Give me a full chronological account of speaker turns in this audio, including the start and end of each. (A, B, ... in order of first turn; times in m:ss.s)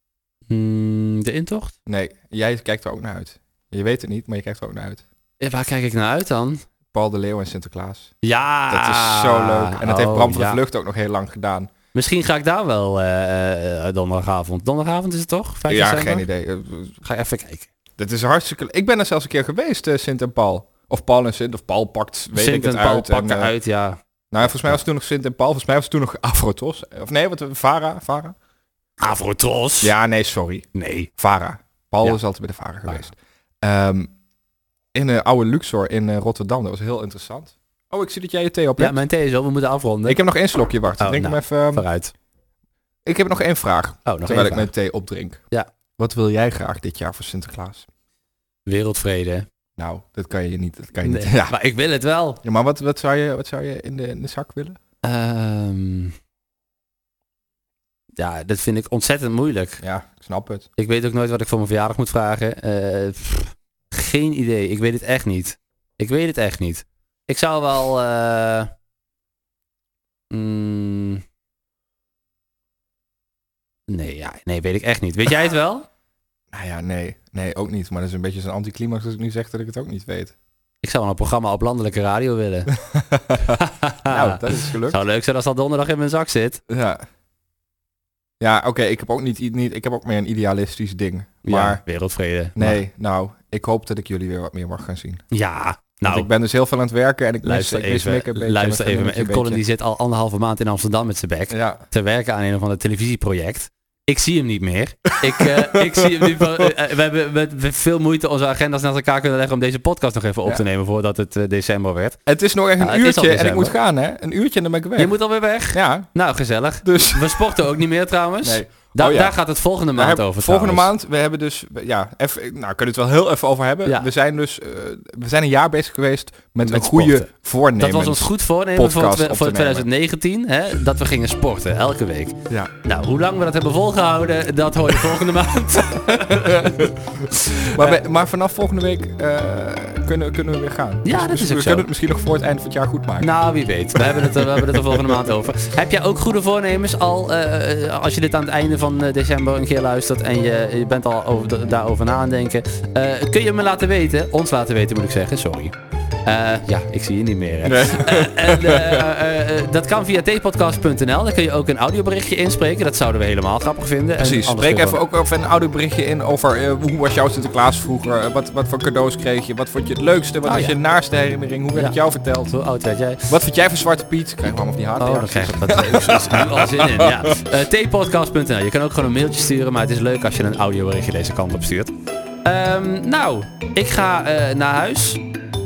0:00.5-0:01.7 A
0:01.9-0:05.0 B
0:05.4-0:06.6 A
0:06.9-0:08.1 B
0:08.2-0:10.6 A
0:08.7-0:11.7 B
0:11.9-0:16.2 A
0:15.7-0:16.9 B
0:17.0-0:17.7 A
0:18.0-0:23.5 B
0:22.4-0:24.8 A
0:24.3-0:28.4 B
0:29.0-0:29.9 A
0:29.8-0:34.1 B
0:30.7-0:31.1 A
0:34.9-0:39.0 B
0:38.8-0:40.2 A
0:40.1-0:41.9 B
0:41.0-0:42.1 A
0:43.1-0:45.4 B
0:44.1-0:44.7 A
0:46.0-0:47.9 B
0:48.6-0:49.4 A
0:49.8-0:51.6 B
0:51.0-0:52.4 A
0:52.4-0:54.8 B
0:55.0-0:56.1 A
0:58.2-0:59.8 A
0:59.8-1:00.7 B
1:00.8-1:08.7 A
1:10.3-1:11.2 A
1:13.9-1:15.9 A
1:16.5-1:20.3 B
1:20.8-1:22.7 A
1:22.9-1:25.0 B
1:23.5-1:26.6 A
1:26.7-1:27.0 B
1:28.4-1:31.8 B
1:31.4-1:32.8 A
1:32.6-1:35.2 B
1:35.3-1:36.3 A
1:36.0-1:39.6 B
1:37.4-1:52.2 A
1:41.5-1:41.8 B
1:45.2-1:46.7 B
1:52.2-1:56.1 B
1:52.8-1:53.7 A
1:55.0-2:00.9 A
1:56.8-1:57.7 B
1:58.4-1:59.4 B
1:59.9-2:09.9 B
2:06.6-2:18.0 A
2:16.0-2:23.3 B
2:21.0-2:21.9 A
2:23.2-2:45.0 A
2:24.0-2:25.3 B
2:37.6-2:39.0 B
2:44.2-2:52.6 B
2:50.4-2:50.8 A
2:52.5-2:53.3 A
2:53.3-2:57.4 B
2:55.0-3:01.9 A
3:02.4-3:05.2 A